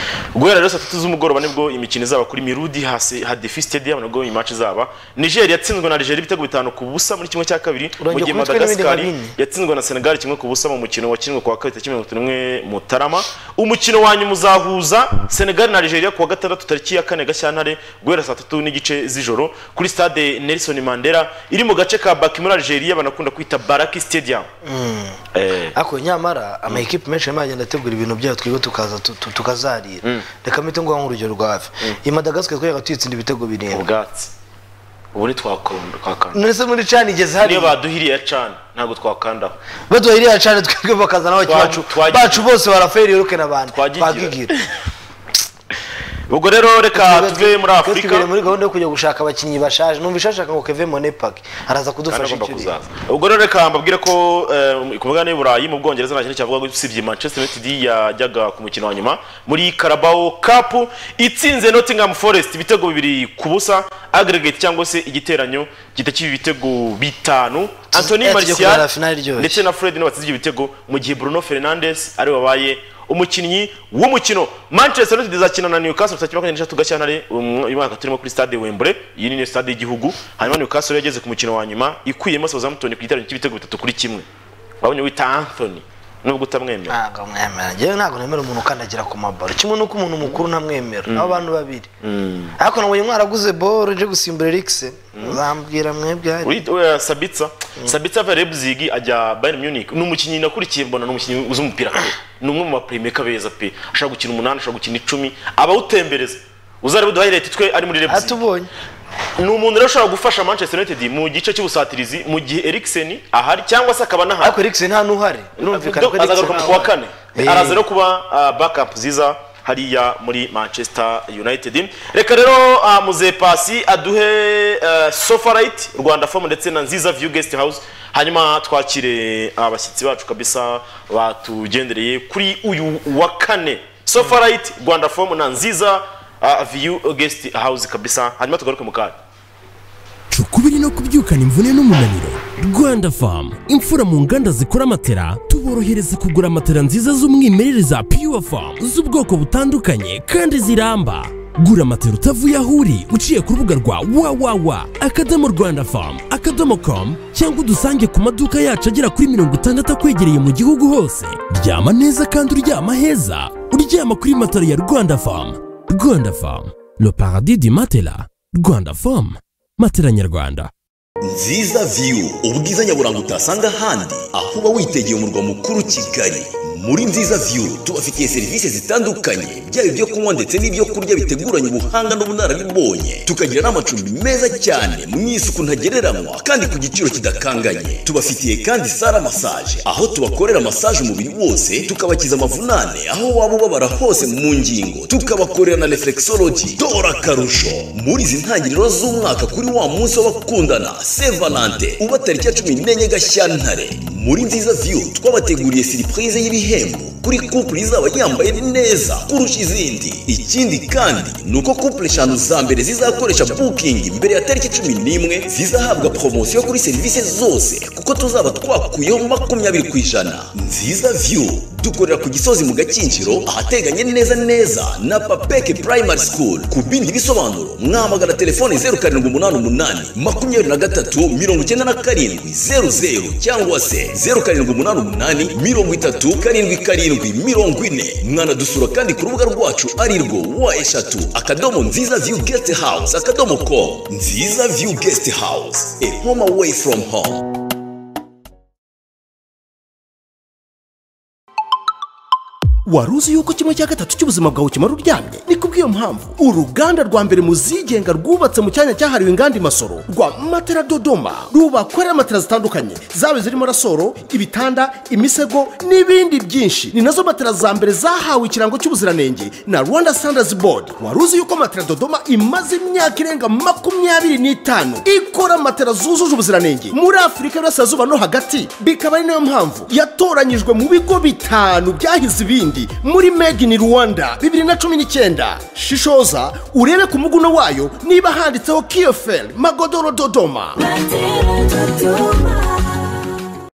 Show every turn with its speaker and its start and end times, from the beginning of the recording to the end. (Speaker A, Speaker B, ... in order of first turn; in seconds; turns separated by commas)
Speaker A: 0.3-24.5, Speaker B: 8.0-9.3, Speaker B: 24.6-25.2, Speaker A: 25.3-25.7, Speaker B: 25.7-33.8, Speaker A: 33.7-34.3, Speaker A: 35.1-36.4, Speaker B: 36.3-37.7, Speaker A: 37.4-39.5, Speaker B: 39.9-44.5, Speaker A: 41.4-42.5, Speaker A: 43.7-44.7, Speaker A: 46.3-48.5, Speaker B: 46.9-52.7, Speaker A: 52.1-84.3, Speaker B: 67.9-69.6, Speaker A: 84.8-87.0, Speaker B: 86.9-91.9, Speaker A: 91.1-91.4, Speaker A: 92.0-92.6, Speaker B: 92.6-96.6, Speaker A: 96.4-108.4, Speaker B: 108.1-108.7, Speaker A: 109.4-114.5, Speaker B: 114.4-117.8, Speaker A: 115.6-139.2, Speaker C: 140.3-170.7, Speaker D: 171.2-247.4, Speaker E: 252.9-290.8